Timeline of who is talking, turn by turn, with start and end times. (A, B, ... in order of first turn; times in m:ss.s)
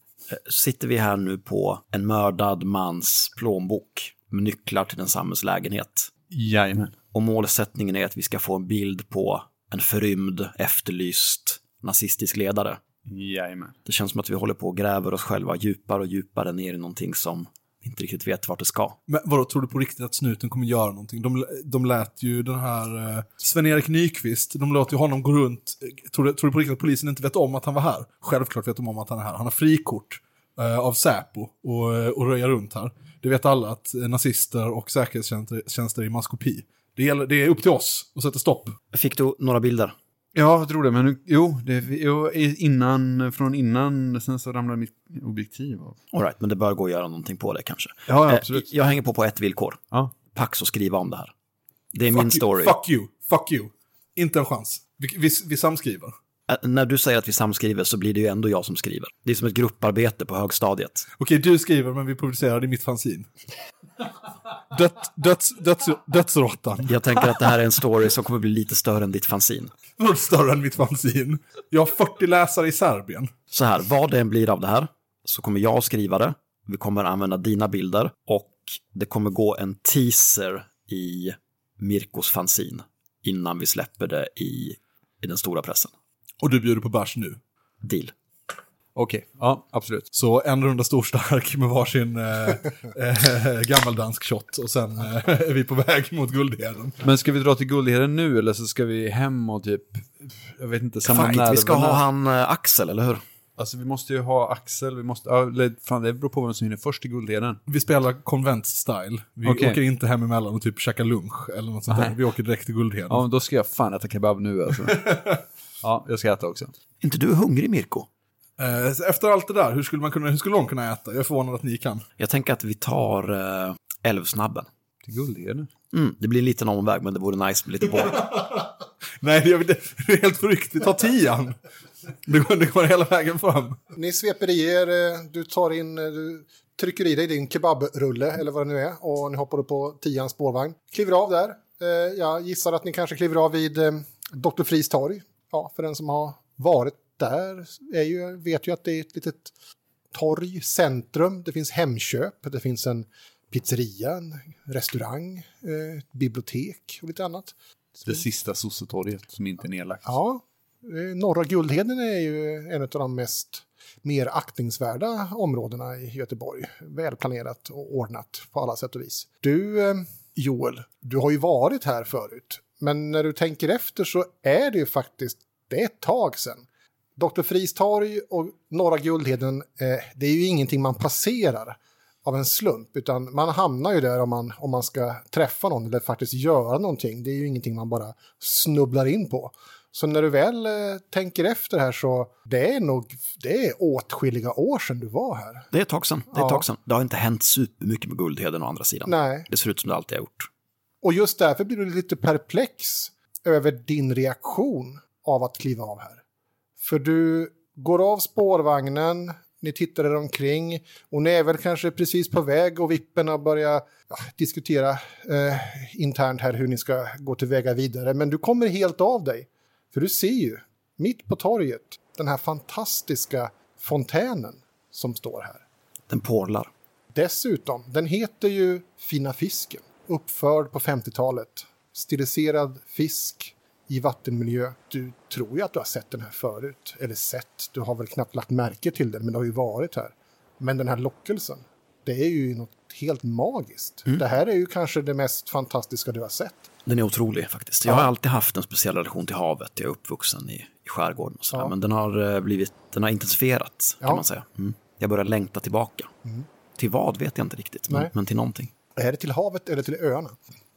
0:00.3-0:06.1 A
0:06.3-0:07.0 B
0:07.1-0:12.8 A
0:13.1-0:13.8 B
0:13.8-0:19.0 A
0:19.1-0:38.8 C
0:38.9-0:40.0 A
0:40.4-0:46.0 B
0:46.1-0:51.3 A
0:48.1-0:48.4 C
0:48.2-0:48.7 B
0:51.9-0:52.8 A
0:52.1-0:56.2 C
0:56.5-1:01.1 A
1:01.2-1:03.3 C
1:04.7-1:07.3 C
1:06.9-1:09.8 A
1:10.0-1:13.3 C
1:13.5-1:25.9 A
1:26.4-1:27.4 C
1:27.8-1:28.1 A
1:29.0-1:30.1 B
1:30.1-1:37.0 C
1:37.0-1:42.0 B
1:41.0-1:41.5 C
1:41.1-1:43.2 A
1:43.6-1:47.6 B
1:47.7-1:53.2 C
1:49.4-1:49.8 B
1:51.9-1:52.2 B
1:53.1-1:55.2 B
1:54.8-1:55.4 C
1:55.8-1:56.7 B
1:57.0-1:58.1 A
1:58.6-2:02.0 C
2:02.2-2:04.7 A
2:05.0-2:05.7 B
2:05.9-2:08.3 A
2:08.2-2:11.6 C
2:12.2-2:13.8 C
2:13.9-2:29.5 D
2:30.1-2:37.5 D
2:38.0-2:40.2 B
2:40.0-2:56.7 D
2:57.2-3:15.7 D
3:15.7-3:20.5 A
3:16.3-3:16.7 D
3:19.1-3:19.5 D
3:21.0-3:26.2 D
3:26.8-3:45.6 D
3:46.1-3:46.7 A
3:47.1-4:06.7 D
4:06.9-4:16.1 A
4:16.8-4:18.7 A
4:19.0-4:20.4 D